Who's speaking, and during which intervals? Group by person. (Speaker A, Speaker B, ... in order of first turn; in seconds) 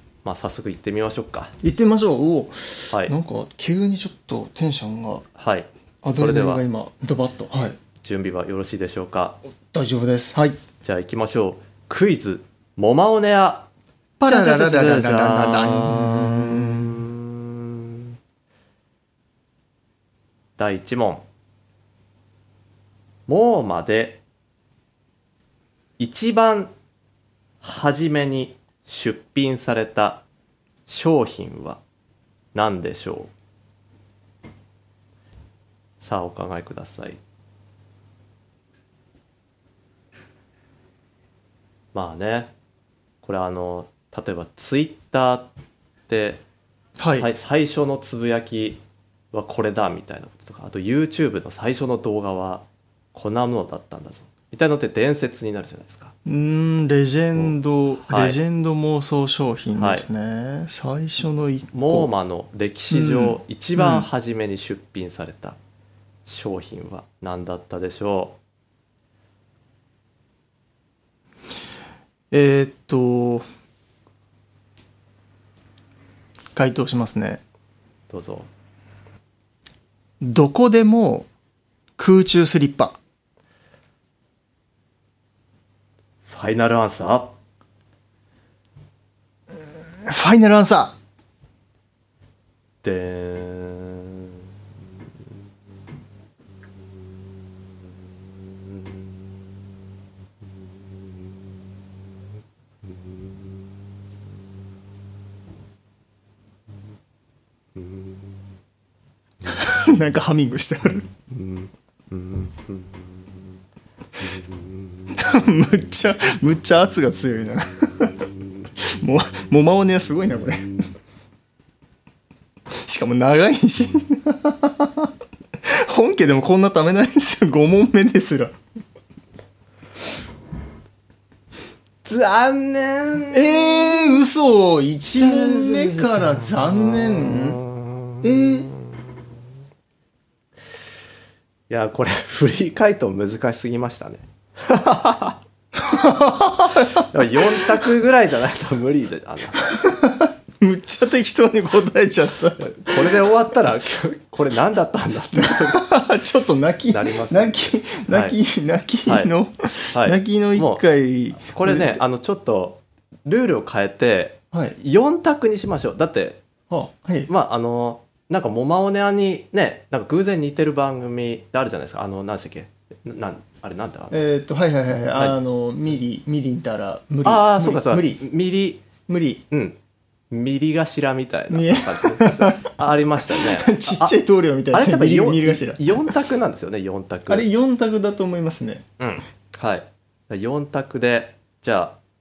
Speaker A: 0.2-1.6, 5.4-6.6, 8.0-9.4, 10.8-13.7, 14.2-18.1, 20.6-21.2, 23.3-24.2, 26.0-26.7, 27.6-30.2, 30.9-31.8, 32.5-33.3, 36.0-37.2, 41.9-42.5, 43.2-45.5, 46.1-46.4, 47.2-48.8, 49.3-56.1, 57.4-58.4, 59.8-60.1, 61.7-65.6, 66.3-68.4, 78.1-78.5, 86.3-87.3, 92.8-94.4, 98.5-99.0, 107.8-108.2, 111.3-113.3, 114.3-115.0, 132.0-134.0, 135.2-139.3, 141.7-145.4, 146.8-149.8, 152.6-155.9, 156.9-158.4, 159.1-159.3, 159.9-160.8, 161.4-166.4, 167.3-174.2, 177.2-178.8, 179.5-179.8, 180.3-184.2, 184.7-187.5, 189.0-192.0
Speaker B: 1.6-5.2, 6.0-7.8, 9.7-10.6, 14.2-17.1, 47.0-47.3, 56.3-62.1, 62.9-64.1, 72.3-73.5, 76.5-77.4, 80.2-81.3, 82.0-83.0, 90.0-91.0, 109.5-111.1, 115.1-118.2, 118.8-120.8, 122.8-125.1, 125.7-128.5, 133.3-137.6, 138.2-138.7, 145.8-147.8, 149.7-153.2, 155.3-162.0, 166.7-167.3, 174.1-178.2, 179.1-179.4, 181.5-182.6, 183.3-186.1, 187.3-188.8